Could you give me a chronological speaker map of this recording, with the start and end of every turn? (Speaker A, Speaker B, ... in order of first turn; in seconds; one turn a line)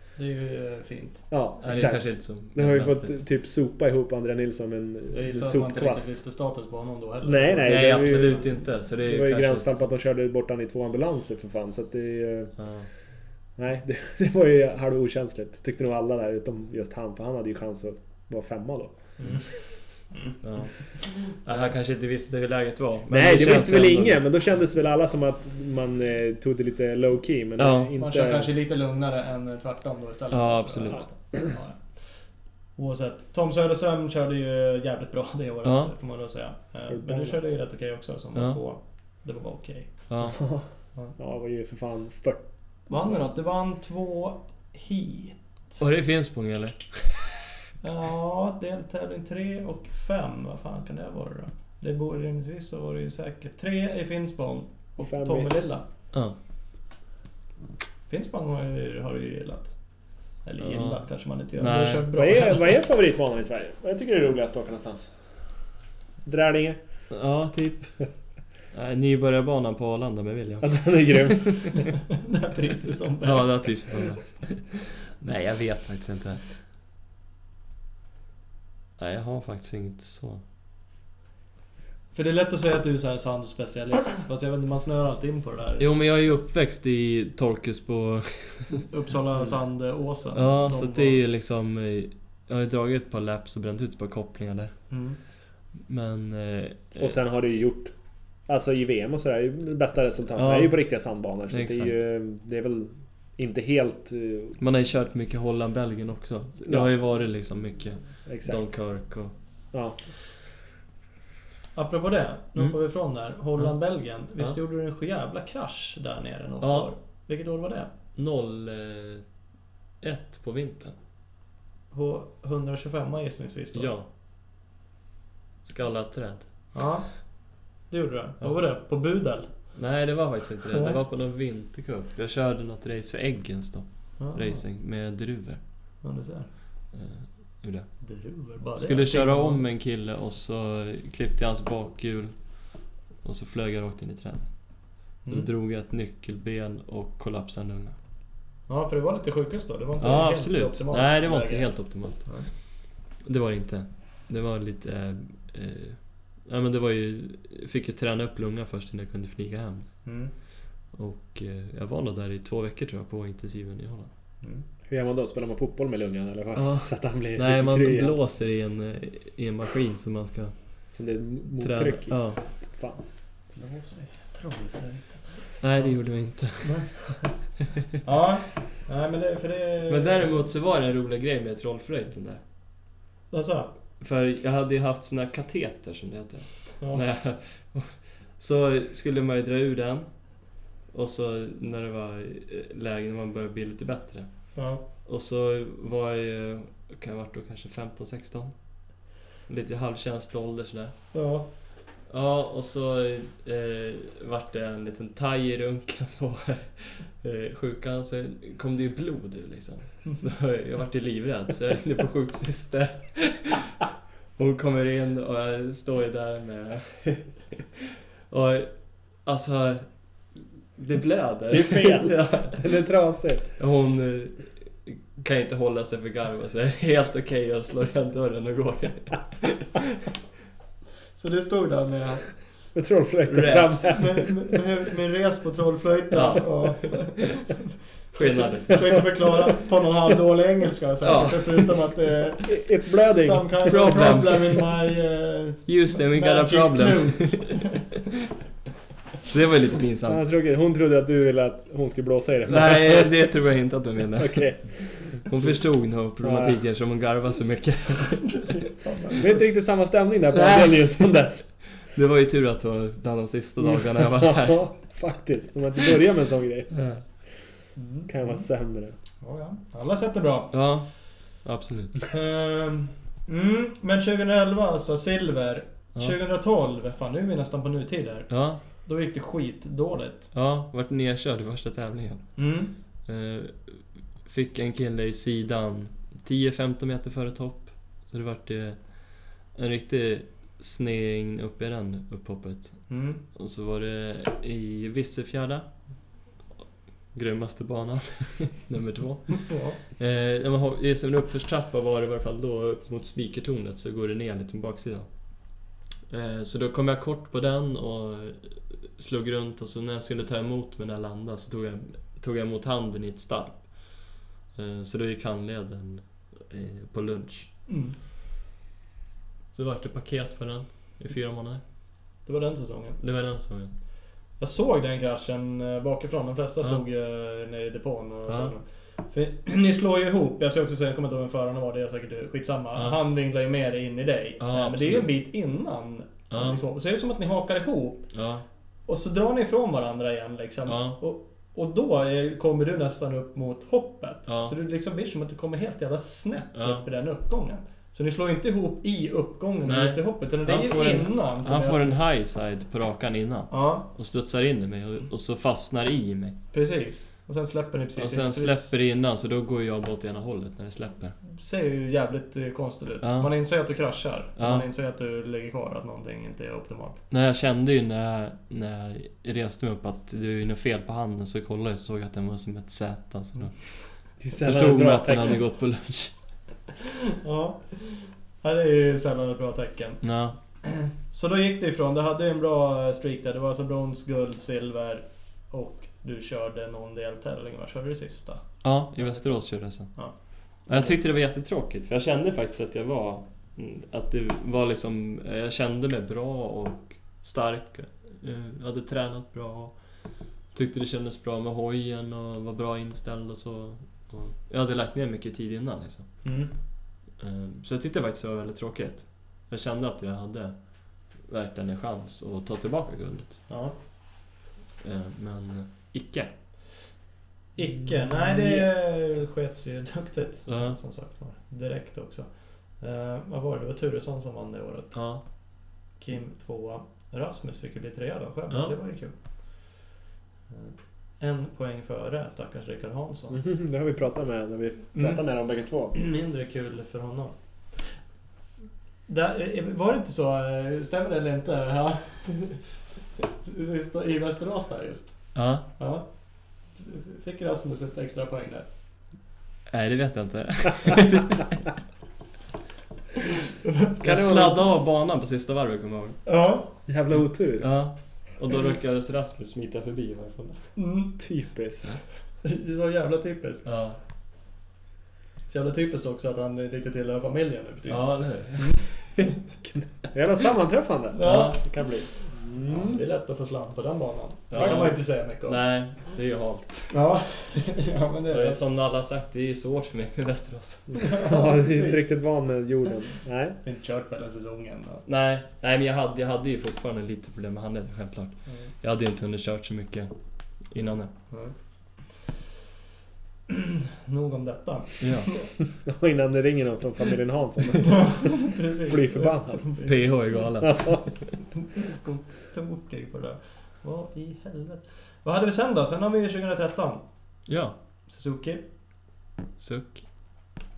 Speaker A: 0.1-1.2
Speaker B: 1.3-6.2
Speaker C: 1.6-3.2
Speaker A: 5.1-8.5
Speaker B: 7.2-12.5
Speaker C: 7.7-9.8
Speaker C: 12.6-12.9
Speaker B: 13.6-19.1
Speaker A: 19.2-19.5
Speaker C: 20.4-24.3
Speaker B: 23.1-28.5
Speaker C: 27.6-27.9
Speaker A: 28.0-32.0
Speaker C: 30.3-31.1
Speaker A: 32.8-40.1
Speaker C: 35.6-35.9
Speaker B: 36.8-37.5
Speaker C: 40.1-40.4
Speaker B: 40.2-42.4
Speaker A: 42.9-45.8
Speaker C: 45.8-47.2
Speaker A: 47.8-55.8
Speaker B: 55.0-55.5
Speaker A: 58.1-62.7
Speaker C: 60.7-62.1
Speaker B: 62.1-65.1
Speaker B: 66.2-66.8
Speaker C: 67.1-68.0
Speaker C: 68.7-71.5
Speaker B: 70.6-71.9
Speaker A: 72.2-74.1
Speaker C: 73.2-76.5
Speaker C: 79.0-80.4
Speaker A: 82.1-86.0
Speaker C: 85.8-88.8
Speaker A: 88.9-91.2
Speaker C: 90.3-94.8
Speaker A: 94.9-95.2
Speaker C: 95.8-97.1
Speaker B: 97.0-97.9
Speaker B: 98.5-104.6
Speaker C: 100.3-100.9
Speaker C: 101.5-102.0
Speaker C: 104.6-109.3
Speaker B: 108.2-108.6
Speaker B: 109.7-110.0
Speaker A: 111.8-117.9
Speaker C: 116.6-116.9
Speaker C: 118.2-119.2
Speaker C: 120.0-121.0
Speaker A: 121.9-123.9
Speaker C: 123.7-124.1
Speaker C: 125.6-126.7
Speaker A: 126.7-127.3
Speaker A: 127.8-129.7
Speaker C: 129.7-135.6
Speaker A: 130.7-131.0
Speaker A: 134.2-134.6
Speaker A: 136.0-136.5
Speaker C: 136.9-137.9
Speaker A: 138.0-139.6
Speaker C: 138.8-147.9
Speaker A: 145.2-145.5
Speaker A: 148.7-152.5
Speaker C: 150.0-160.0
Speaker A: 160.0-160.3
Speaker C: 160.9-164.1
Speaker B: 164.9-168.2
Speaker C: 166.5-170.8
Speaker B: 170.9-173.0
Speaker C: 171.6-172.4
Speaker A: 173.5-176.0
Speaker C: 175.6-177.0
Speaker A: 176.5-180.4
Speaker C: 179.9-182.4
Speaker A: 183.3-183.7
Speaker C: 184.0-190.3
Speaker C: 190.9-194.5
Speaker A: 194.5-194.8
Speaker C: 195.0-198.5
Speaker C: 199.5-200.9
Speaker A: 201.1-201.5
Speaker C: 202.1-213.8
Speaker C: 214.4-217.6
Speaker C: 218.3-222.7
Speaker B: 221.5-223.5
Speaker C: 223.6-229.9
Speaker A: 231.1-232.4
Speaker B: 232.7-234.5
Speaker C: 233.3-234.0
Speaker A: 233.5-237.6
Speaker C: 236.1-236.9
Speaker C: 238.1-239.1
Speaker A: 238.2-247.9
Speaker B: 238.8-239.0
Speaker C: 241.0-241.7
Speaker B: 242.5-243.7
Speaker C: 243.7-244.7
Speaker C: 245.7-247.6
Speaker C: 249.3-250.2
Speaker B: 250.1-253.2
Speaker C: 252.5-258.5
Speaker B: 254.2-255.2
Speaker B: 256.2-256.6
Speaker A: 258.3-259.5
Speaker B: 259.2-261.5
Speaker C: 260.3-261.0
Speaker C: 261.8-264.8
Speaker B: 264.0-266.8
Speaker C: 266.7-267.0
Speaker A: 267.8-268.4
Speaker B: 268.1-268.9
Speaker A: 269.2-270.5
Speaker C: 270.5-272.0
Speaker A: 272.1-280.3
Speaker C: 278.3-278.6
Speaker C: 280.3-282.3
Speaker A: 282.4-282.7
Speaker C: 283.1-296.0
Speaker A: 292.9-293.2
Speaker C: 297.1-305.5
Speaker A: 299.3-299.8
Speaker C: 306.1-317.5
Speaker A: 317.7-318.0
Speaker C: 319.5-321.6
Speaker A: 322.2-323.0
Speaker C: 323.0-323.7
Speaker A: 324.4-338.1
Speaker C: 328.3-328.5
Speaker C: 334.4-335.1
Speaker C: 336.3-336.6
Speaker C: 338.1-338.4
Speaker A: 338.9-352.0
Speaker C: 340.7-341.0
Speaker C: 344.3-344.5
Speaker C: 346.5-346.8
Speaker C: 349.6-356.4
Speaker A: 353.5-353.9
Speaker A: 356.5-358.8
Speaker C: 358.0-361.1
Speaker A: 361.2-367.0
Speaker C: 363.0-363.3
Speaker C: 364.4-364.7
Speaker C: 367.1-376.1
Speaker B: 374.2-375.4
Speaker A: 377.2-380.0
Speaker C: 380.0-380.4
Speaker A: 380.6-390.2
Speaker C: 388.6-406.2
Speaker A: 390.7-391.0
Speaker A: 406.2-406.5
Speaker C: 407.2-413.4
Speaker A: 413.5-413.8
Speaker C: 414.8-416.3
Speaker A: 417.6-425.2
Speaker C: 420.5-420.8
Speaker C: 424.9-425.2
Speaker A: 426.0-429.1
Speaker C: 428.5-428.8
Speaker A: 430.5-433.4
Speaker B: 433.3-435.9
Speaker A: 434.9-435.2
Speaker A: 435.9-438.0
Speaker A: 439.1-442.7
Speaker A: 443.2-446.1
Speaker C: 445.3-445.7
Speaker A: 446.7-448.7
Speaker C: 449.7-451.6
Speaker A: 453.6-454.5
Speaker C: 454.0-456.2
Speaker B: 454.0-454.5
Speaker A: 456.2-456.8
Speaker B: 456.9-457.7
Speaker C: 457.6-460.7
Speaker A: 460.8-461.2
Speaker B: 461.2-462.0
Speaker A: 462.4-463.7
Speaker C: 463.6-464.0
Speaker A: 465.5-469.4
Speaker C: 467.9-469.0
Speaker B: 470.1-473.0
Speaker A: 471.1-475.6
Speaker C: 471.2-471.6
Speaker C: 474.5-477.0
Speaker A: 476.9-478.6
Speaker C: 478.3-481.1
Speaker B: 480.9-483.6
Speaker A: 481.0-482.1
Speaker A: 483.6-485.0
Speaker C: 485.1-491.1
Speaker A: 493.5-495.5
Speaker C: 495.0-495.3
Speaker B: 495.7-499.7
Speaker A: 497.8-500.4
Speaker C: 499.8-501.4
Speaker B: 500.6-501.0
Speaker A: 501.6-507.0
Speaker C: 507.5-507.8
Speaker A: 508.1-508.6
Speaker C: 509.6-510.0